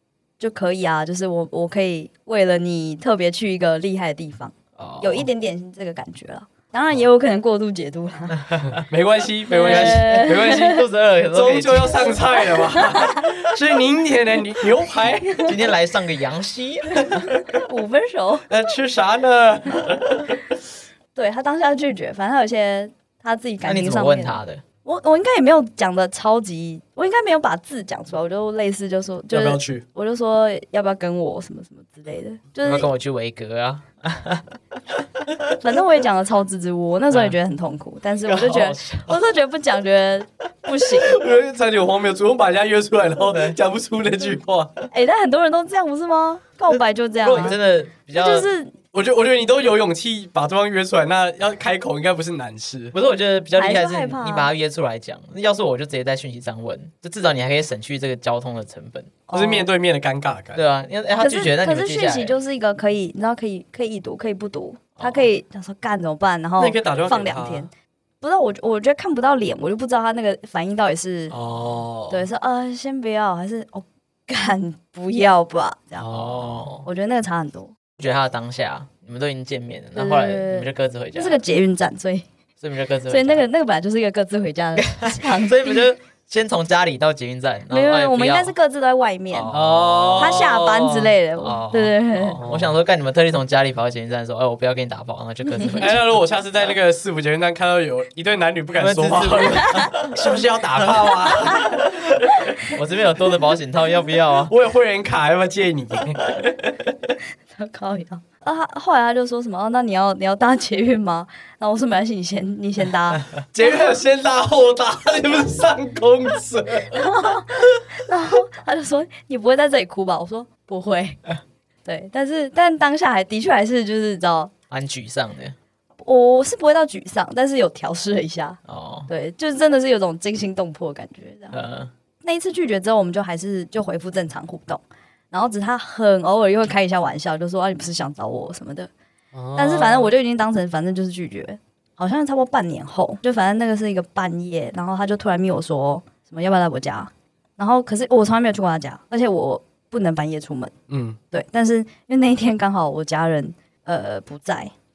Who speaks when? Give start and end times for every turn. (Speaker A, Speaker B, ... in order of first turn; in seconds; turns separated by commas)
Speaker A: 0.4-8.6, Speaker B: 4.8-5.3, Speaker B: 8.3-8.8, Speaker C: 8.8-15.5, Speaker A: 9.5-10.8, Speaker B: 9.6-12.2, Speaker A: 12.6-13.2, Speaker A: 15.2-15.5, Speaker B: 15.4-17.4, Speaker A: 17.5-18.5, Speaker C: 18.5-20.3, Speaker A: 21.1-32.9, Speaker B: 23.6-24.6, Speaker C: 29.3-29.8, Speaker B: 32.6-34.5, Speaker A: 35.6-41.2, Speaker B: 38.2-39.2, Speaker C: 41.0-44.8, Speaker B: 43.3-43.6, Speaker A: 44.9-47.5, Speaker B: 47.2-48.5, Speaker A: 48.1-48.7, Speaker C: 48.9-52.9, Speaker B: 52.9-59.1, Speaker A: 53.5-54.5, Speaker A: 59.3-59.7, Speaker C: 59.3-60.6, Speaker B: 60.5-62.4, Speaker A: 61.2-71.3, Speaker B: 65.0-65.3, Speaker C: 66.6-67.7, Speaker B: 71.3-71.9, Speaker C: 71.3-72.2, Speaker A: 72.1-76.1, Speaker C: 76.0-76.8, Speaker B: 76.1-76.8, Speaker A: 76.8-77.7, Speaker B: 78.0-81.4, Speaker A: 80.0-82.3, Speaker B: 82.6-83.4, Speaker A: 83.1-85.8, Speaker B: 84.8-88.5, Speaker A: 87.7-89.5, Speaker B: 89.3-90.6, Speaker C: 89.5-91.1, Speaker A: 90.2-92.4, Speaker B: 91.4-96.0, Speaker C: 92.4-92.7, Speaker C: 95.8-102.0, Speaker B: 98.8-104.5, Speaker A: 99.6-99.9, Speaker C: 104.5-106.7, Speaker A: 107.5-114.0, Speaker C: 113.5-117.0, Speaker A: 116.9-121.2, Speaker A: 121.8-124.5, Speaker B: 124.7-125.6, Speaker A: 126.0-131.6, Speaker B: 128.7-129.1, Speaker B: 131.5-131.9, Speaker A: 132.2-138.9, Speaker C: 139.3-140.1, Speaker A: 139.6-150.7, Speaker C: 150.9-151.2, Speaker A: 151.3-154.7